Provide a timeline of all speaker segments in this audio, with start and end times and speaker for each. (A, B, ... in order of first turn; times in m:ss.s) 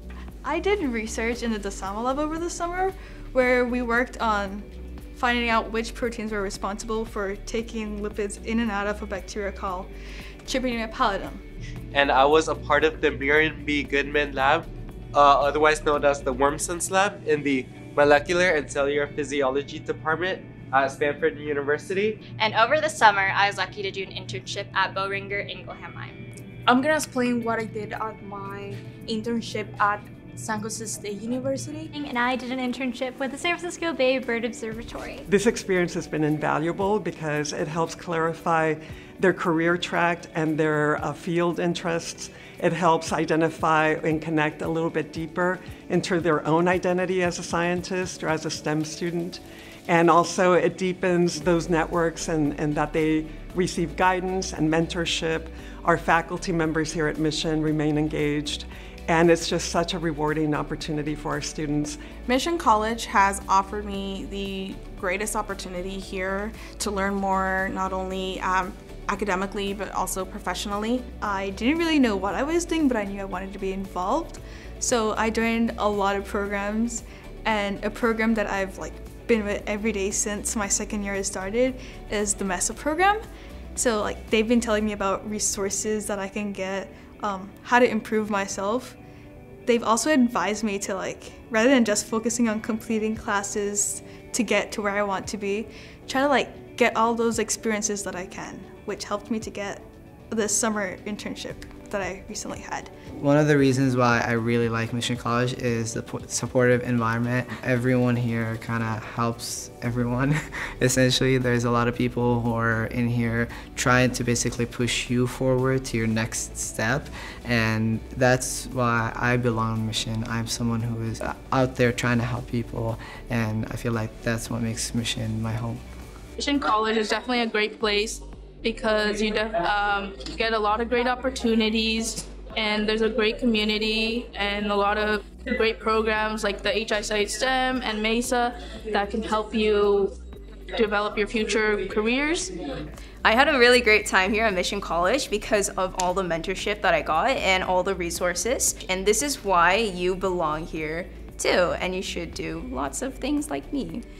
0:00.4-0:09.9 A
0:10.5-0:11.4 A
0:11.9-0:22.2 B
0:22.3-0:26.3 C
0:26.7-0:31.9 D
0:31.9-0:35.2 E
0:35.3-1:02.0 F
1:02.2-1:11.1 G
1:11.2-1:23.2 A
1:23.8-1:29.0 A
1:29.7-1:42.9 A
1:43.2-2:05.8 H
2:06.4-2:20.1 I
2:20.8-2:22.5 I
2:23.2-2:34.0 J